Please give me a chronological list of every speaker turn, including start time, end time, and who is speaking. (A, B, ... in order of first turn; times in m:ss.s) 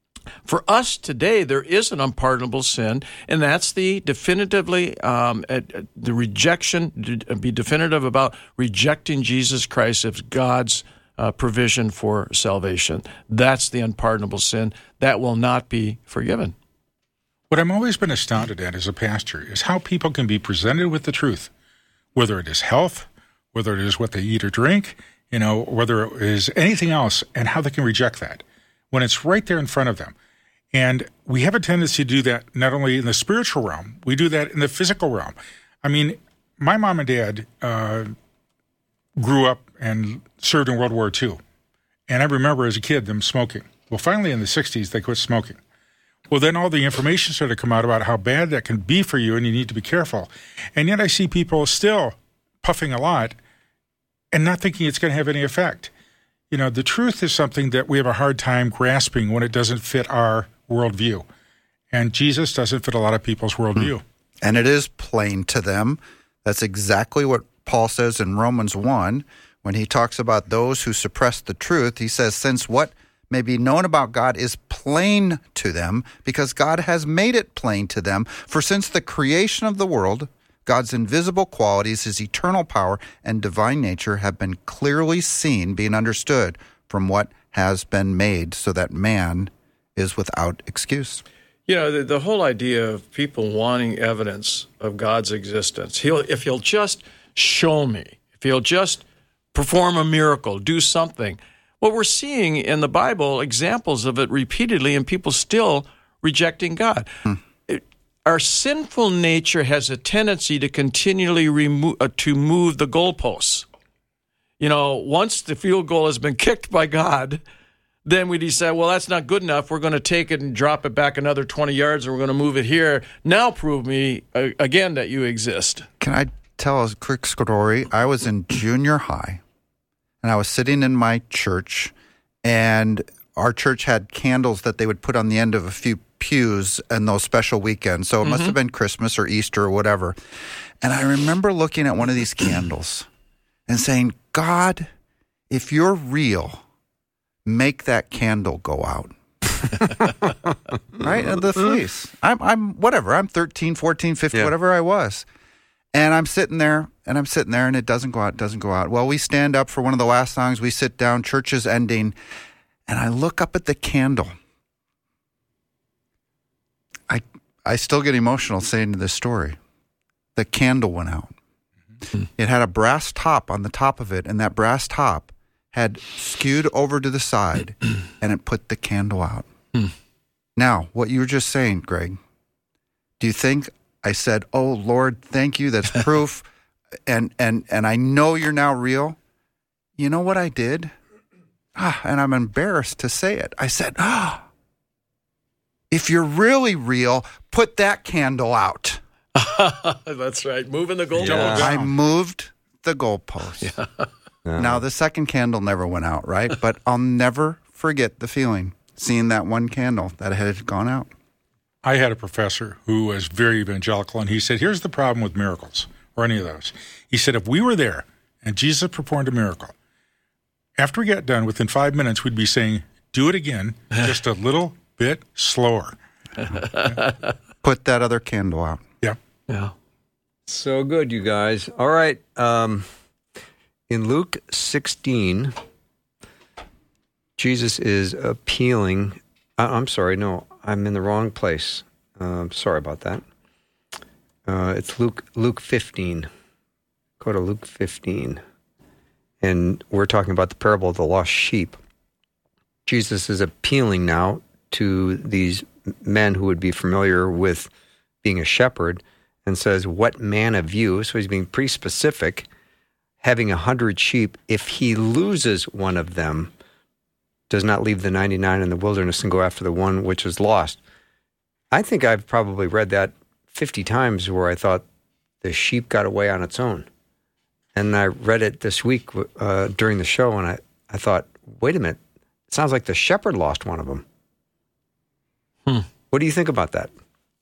0:00.4-0:16.5 A
0:17.5-0:21.5 B
0:22.1-0:30.1 B
0:30.7-0:38.1 B
0:39.2-0:41.4 B
0:42.1-0:45.6 B
0:46.3-0:53.4 B
0:54.3-0:55.9 B
0:56.5-1:01.2 B
1:01.9-1:04.0 B
1:04.4-1:31.2 C
1:31.7-1:47.1 A
1:47.6-1:53.6 A
1:54.6-1:57.4 A
1:58.0-2:05.9 A
2:06.0-2:09.4 C
2:10.2-2:11.9 C
2:12.4-2:20.2 C
2:18.2-2:18.5 A
2:20.8-2:23.1 C
2:23.7-2:24.9 C
2:25.5-2:26.6 C
2:27.4-2:30.1 C
2:31.0-2:35.2 C
2:35.9-2:42.1 C
2:42.9-2:44.3 C
2:47.1-2:49.6 C
2:50.4-2:51.3 C
2:52.4-2:59.5 C
3:00.6-3:02.2 C
3:03.2-3:06.5 C
3:07.1-3:09.2 C
3:10.0-3:10.9 C
3:11.8-3:14.4 C
3:15.9-3:19.0 C
3:19.3-3:21.7 A
3:21.2-3:21.7 D
3:21.2-3:21.9 B
3:21.5-3:23.7 C
3:23.6-3:24.1 A
3:24.4-3:24.8 D
3:24.6-3:31.1 C
3:31.8-3:39.7 B
3:40.8-3:45.9 B
3:46.5-3:47.2 A
3:47.6-3:48.8 C
3:49.5-3:49.7 A
3:50.5-3:52.9 D
3:53.9-3:55.5 D
3:57.4-4:03.2 D
4:04.4-4:06.3 D
4:07.2-4:08.4 D
4:09.4-4:11.8 D
4:12.8-4:17.7 D
4:18.2-4:22.5 D
4:23.2-4:26.5 D
4:27.5-4:30.8 D
4:31.7-4:34.8 D
4:35.4-4:36.9 D
4:37.7-4:44.0 D
4:46.1-4:46.9 D